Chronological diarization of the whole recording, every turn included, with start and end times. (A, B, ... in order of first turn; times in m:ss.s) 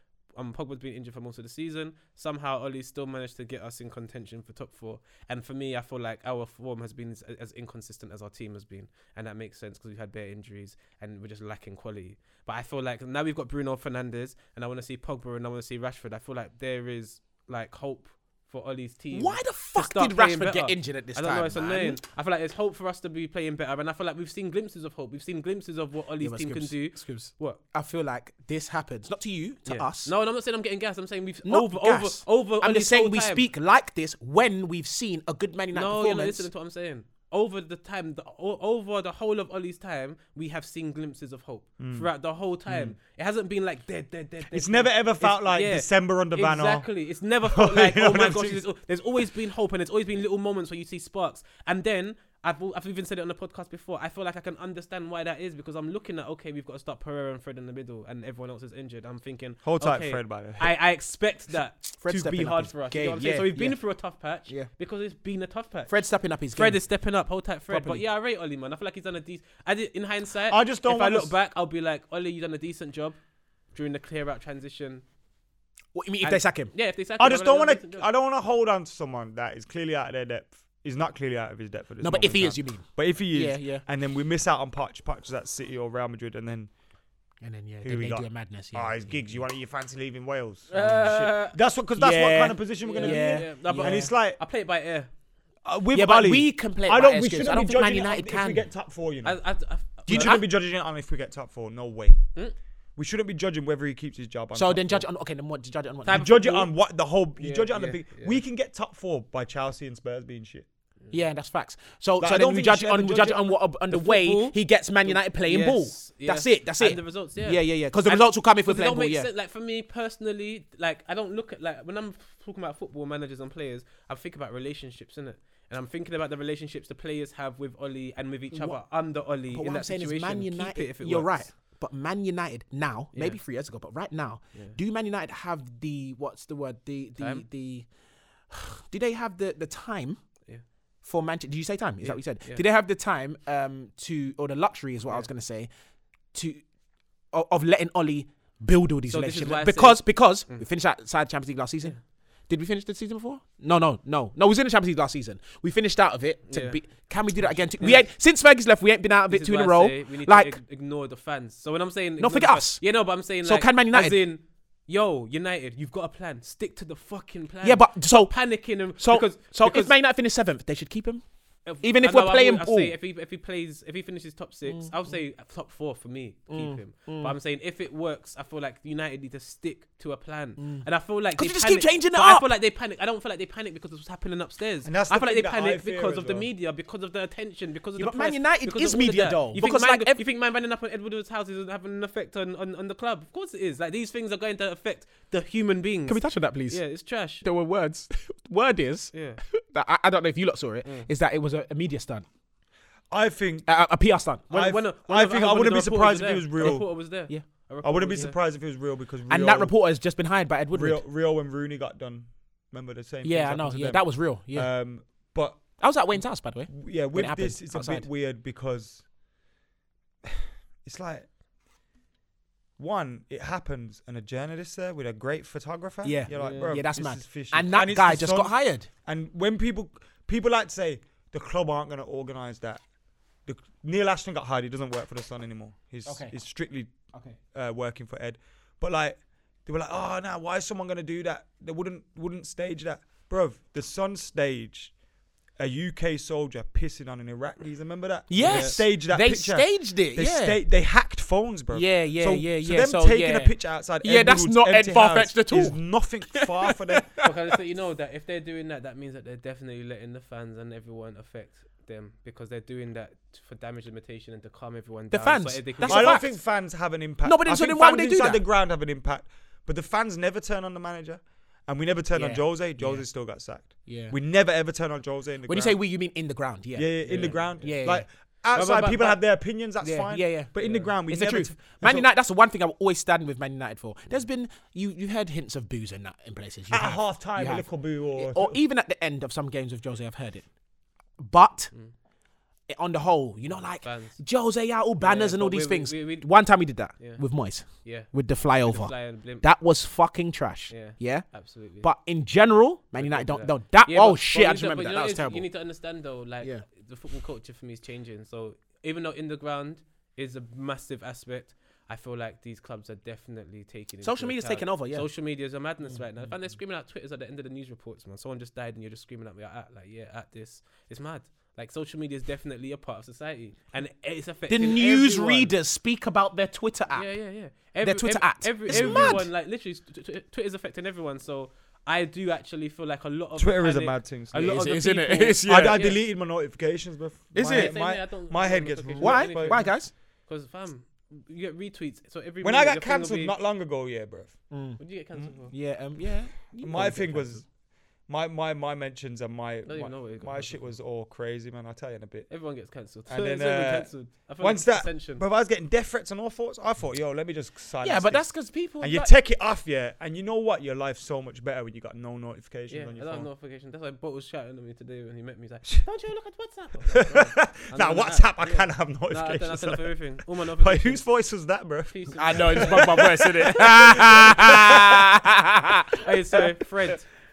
0:00.3-0:27.6 A
0:19.1-0:22.0 B
0:26.2-0:30.1 B
0:29.7-0:33.4 A
0:31.4-0:36.5 B
0:35.7-1:05.9 A
0:41.8-0:42.1 C
0:42.7-0:43.0 C
0:44.5-0:46.9 C
0:47.4-0:48.6 C
0:59.6-1:00.7 C
1:02.0-1:03.8 B
1:05.9-1:06.8 B
1:06.5-1:13.2 A
1:07.7-1:08.0 B
1:10.5-1:11.3 C
1:13.7-1:15.0 A
1:15.9-1:16.7 B
1:16.2-1:18.1 A
1:17.2-1:26.7 C
1:22.0-1:23.8 B
1:27.4-1:29.4 B
1:27.8-1:34.4 C
1:30.7-1:31.6 A
1:31.9-1:34.1 B
1:32.8-1:35.1 A
1:35.6-1:39.4 C
1:35.9-1:38.7 B
1:39.2-1:40.4 A
1:40.1-1:40.4 B
1:40.1-1:42.3 C
1:43.0-1:45.0 C
1:44.5-1:46.2 B
1:46.0-1:46.7 A
1:46.1-1:50.6 C
1:47.4-1:48.4 A
1:51.1-1:59.3 B
1:52.2-1:53.5 C
1:53.9-2:11.5 A
2:08.5-2:08.8 B
2:09.5-2:17.8 B
2:13.1-2:13.4 A
2:17.2-2:17.4 A
2:18.5-2:20.2 B
2:21.0-2:25.7 B
2:22.0-2:22.6 A
2:26.3-2:26.6 B
2:27.3-2:40.6 B
2:29.1-2:30.6 A
2:36.5-2:36.8 A
2:37.8-2:38.0 A
2:39.3-2:49.9 A
2:42.2-2:42.8 B
2:43.4-2:44.2 B
2:47.6-2:52.9 B
2:51.6-3:17.4 A
2:54.7-2:54.9 B
2:56.5-2:57.3 B
3:00.6-3:02.5 B
3:04.8-3:06.5 C
3:08.0-3:10.2 B
3:16.1-3:16.8 B
3:17.4-3:22.2 B
3:19.1-3:19.4 A
3:23.1-3:23.7 C
3:23.7-3:24.5 B
3:24.5-3:26.9 C
3:24.5-3:28.4 A
3:26.6-3:27.4 B
3:27.8-3:29.7 C
3:29.3-3:31.0 B
3:30.7-3:35.6 C
3:33.2-3:34.7 B
3:35.8-3:38.1 B
3:36.7-3:39.0 C
3:40.2-3:41.3 C
3:42.8-3:52.8 C
3:46.0-3:48.9 B
3:46.3-3:46.8 A
3:53.4-3:57.0 C
3:56.0-3:56.4 B
3:57.1-3:57.4 B
3:57.5-4:04.9 C
4:05.6-4:17.2 C
4:08.3-4:10.6 B
4:08.4-4:08.8 A
4:11.7-4:17.3 B
4:17.2-4:26.3 A
4:25.1-4:26.4 B
4:25.8-4:35.8 C
4:27.2-4:28.4 B
4:32.1-4:33.0 B
4:33.8-4:34.2 B
4:35.5-4:38.0 B
4:36.7-4:42.1 C
4:37.0-4:37.8 A
4:38.5-4:39.2 A
4:39.8-4:50.5 B
4:40.6-4:40.9 A
4:46.7-4:48.6 C
4:51.2-4:51.7 B
4:52.7-5:05.5 B
4:53.8-4:54.2 A
4:55.0-4:56.3 A
4:56.9-4:59.4 A
5:00.7-5:01.9 A
5:03.0-5:25.5 A
5:14.0-5:15.1 B
5:15.9-5:16.2 B
5:24.5-5:27.1 B
5:26.9-5:36.0 A
5:27.8-5:29.3 B
5:28.7-5:29.2 C
5:33.4-5:34.7 C
5:34.4-5:35.8 B
5:35.4-5:39.6 C
5:37.3-5:37.8 B
5:37.4-5:43.3 A
5:39.0-5:39.9 B
5:42.4-5:44.4 C
5:44.5-5:44.8 B
5:44.8-5:45.5 A
5:45.5-5:47.4 B
5:46.6-5:47.5 C
5:48.1-5:52.3 C
5:49.6-5:50.7 A
5:52.3-5:55.2 A
5:53.1-6:03.3 C
5:57.8-5:59.1 B
6:02.7-6:11.1 A
6:06.9-6:15.0 C
6:11.9-6:13.2 A
6:12.1-6:16.5 B
6:16.0-6:17.1 A